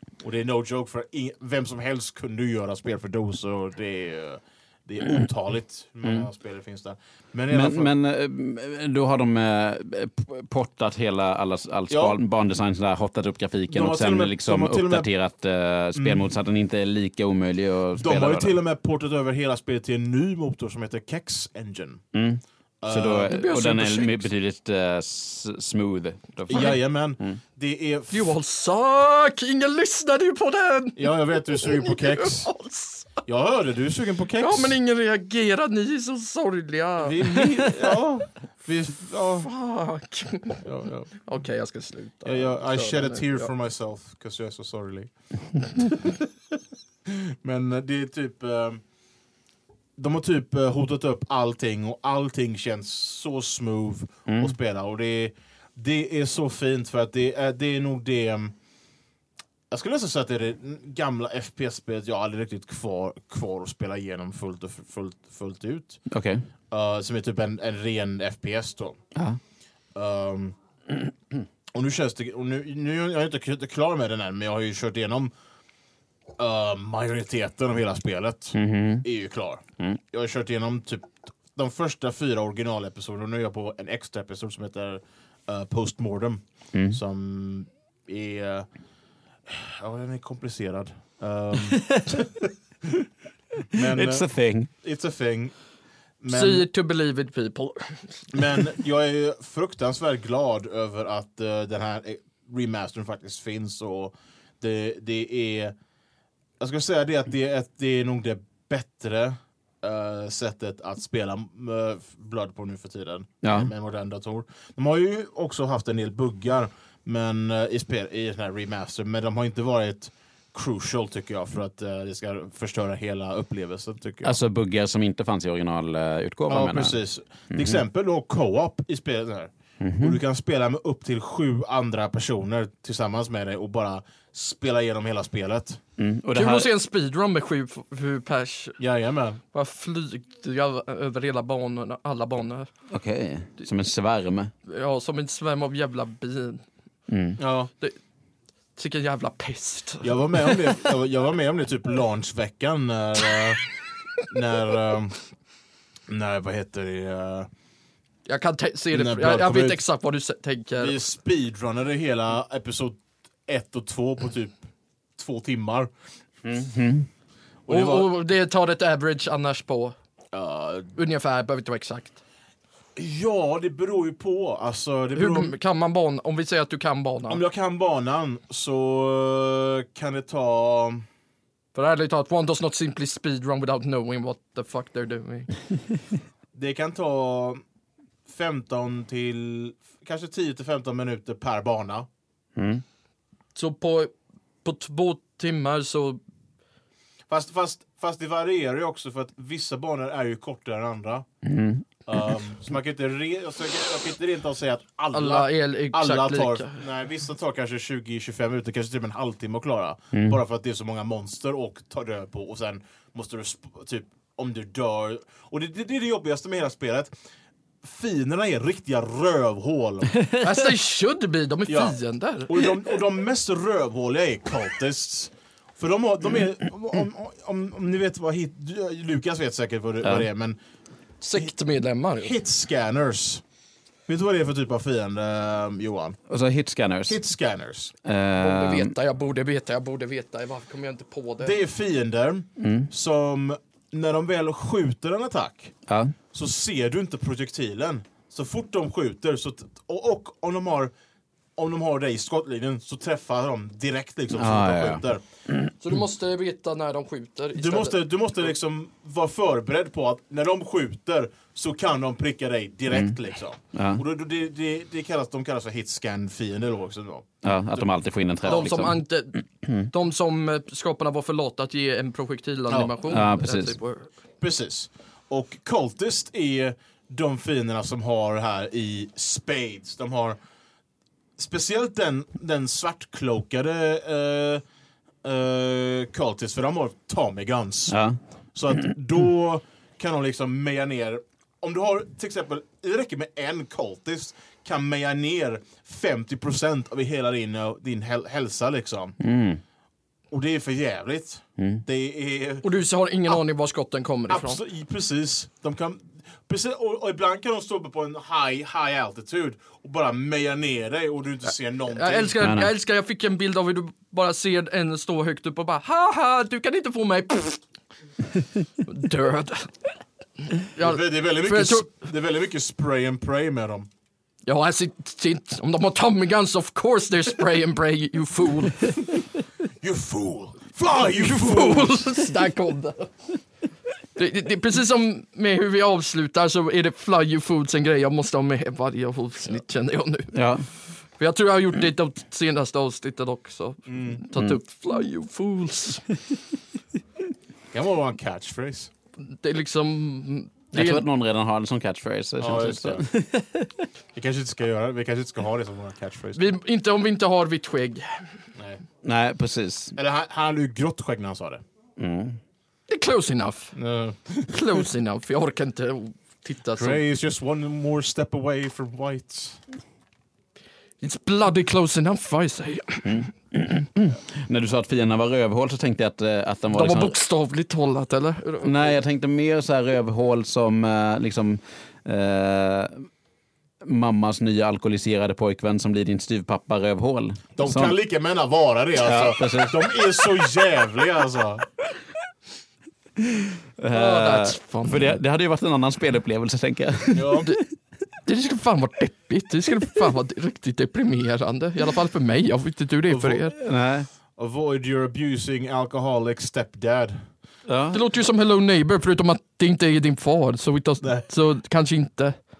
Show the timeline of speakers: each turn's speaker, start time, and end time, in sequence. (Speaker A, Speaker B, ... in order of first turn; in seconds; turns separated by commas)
Speaker A: 0.2-7.9, Speaker B: 7.5-18.6, Speaker A: 11.9-12.2, Speaker A: 13.7-15.1, Speaker A: 15.9-16.3, Speaker A: 18.0-22.0, Speaker B: 22.1-27.4, Speaker A: 22.8-23.3, Speaker C: 23.3-24.2, Speaker A: 26.5-28.4, Speaker C: 28.1-33.2, Speaker A: 31.0-32.5, Speaker A: 33.2-34.8, Speaker C: 34.4-37.6, Speaker A: 37.0-39.5, Speaker C: 39.3-43.5, Speaker A: 40.6-41.1, Speaker A: 42.2-46.1, Speaker A: 47.1-48.8, Speaker A: 50.0-58.6, Speaker B: 54.3-54.5, Speaker A: 59.7-66.0, Speaker B: 66.1-66.5, Speaker A: 66.7-69.0, Speaker A: 70.0-70.6, Speaker A: 71.7-75.3, Speaker A: 76.4-88.7, Speaker B: 78.5-79.0, Speaker B: 86.7-87.0, Speaker A: 89.5-92.5, Speaker B: 91.7-92.2, Speaker A: 93.7-95.5, Speaker B: 93.8-94.7, Speaker A: 96.2-96.7, Speaker C: 96.3-98.6, Speaker A: 98.3-105.7, Speaker A: 106.6-124.4, Speaker B: 113.4-113.7, Speaker B: 124.2-127.0, Speaker A: 126.5-135.8, Speaker B: 127.5-127.8, Speaker B: 129.8-130.2, Speaker B: 136.0-136.7, Speaker C: 136.3-138.8, Speaker A: 138.8-139.4, Speaker C: 139.5-142.7, Speaker B: 142.9-144.5, Speaker C: 144.7-146.7, Speaker B: 147.1-147.4, Speaker A: 147.4-147.7, Speaker C: 148.8-150.9, Speaker A: 150.0-153.6, Speaker A: 154.2-155.2, Speaker A: 156.1-157.5, Speaker C: 158.3-161.0, Speaker A: 158.9-159.8, Speaker A: 160.8-165.9, Speaker B: 166.4-167.1, Speaker A: 167.7-168.1, Speaker C: 167.7-169.9, Speaker A: 170.3-170.9, Speaker C: 170.9-172.2, Speaker A: 173.0-175.6, Speaker C: 175.2-177.4, Speaker A: 177.3-181.1, Speaker C: 181.7-185.6, Speaker A: 186.5-187.6, Speaker A: 188.3-192.1, Speaker B: 192.6-192.8, Speaker C: 193.6-194.1, Speaker C: 194.6-196.2, Speaker A: 197.3-201.3, Speaker B: 201.4-201.8, Speaker A: 202.1-217.2, Speaker C: 205.1-206.8, Speaker B: 210.1-210.4, Speaker A: 217.8-220.1, Speaker B: 220.2-220.6, Speaker C: 220.4-222.8, Speaker A: 221.7-230.6, Speaker C: 231.2-232.4, Speaker A: 232.2-233.4, Speaker A: 234.1-236.2, Speaker B: 236.3-237.2, Speaker A: 237.1-237.9, Speaker B: 238.1-238.9, Speaker C: 238.4-241.6, Speaker A: 241.4-245.8, Speaker B: 242.6-242.9, Speaker B: 245.9-246.2, Speaker A: 246.3-250.9, Speaker A: 251.6-255.2, Speaker B: 254.3-256.0, Speaker C: 255.8-258.0, Speaker A: 257.6-267.9, Speaker B: 262.9-263.2, Speaker B: 263.7-264.0, Speaker B: 267.4-269.0, Speaker A: 268.4-268.7, Speaker C: 268.5-274.1, Speaker A: 272.7-272.9, Speaker B: 273.1-273.8, Speaker A: 274.4-280.4, Speaker A: 281.4-284.6, Speaker A: 285.2-288.0, Speaker B: 287.9-288.2, Speaker A: 288.6-299.2, Speaker B: 299.2-299.6, Speaker A: 300.3-302.7, Speaker B: 301.6-301.8, Speaker C: 302.6-304.6, Speaker A: 304.3-312.4, Speaker C: 311.9-317.6, Speaker B: 312.4-312.7, Speaker C: 318.9-319.9, Speaker C: 320.5-322.0, Speaker A: 320.8-323.9, Speaker C: 324.5-329.2, Speaker A: 329.8-332.2, Speaker C: 331.0-333.3, Speaker C: 334.2-340.4, Speaker B: 340.3-340.7, Speaker C: 341.1-346.1, Speaker A: 343.9-344.2, Speaker A: 347.7-348.9, Speaker C: 349.3-351.1, Speaker B: 350.7-353.9, Speaker A: 352.4-353.1, Speaker A: 354.1-356.5, Speaker C: 356.4-358.4, Speaker A: 358.6-358.8, Speaker B: 359.0-360.0, Speaker A: 360.0-361.6, Speaker B: 362.0-362.4, Speaker C: 362.9-363.8, Speaker A: 363.8-364.9, Speaker C: 364.5-367.0, Speaker A: 366.7-369.6, Speaker C: 371.0-373.3, Speaker B: 373.1-377.1, Speaker C: 376.7-378.9, Speaker B: 378.6-383.1, Speaker B: 383.8-388.0, Speaker A: 387.6-391.7, Speaker B: 389.0-389.9, Speaker B: 393.2-397.5, Speaker C: 393.9-395.2, Speaker A: 397.1-397.5, Speaker C: 398.2-403.6, Speaker A: 403.1-403.4, Speaker B: 403.5-404.1, Speaker A: 404.4-407.3, Speaker B: 407.7-408.0, Speaker C: 407.9-412.4, Speaker A: 411.0-411.3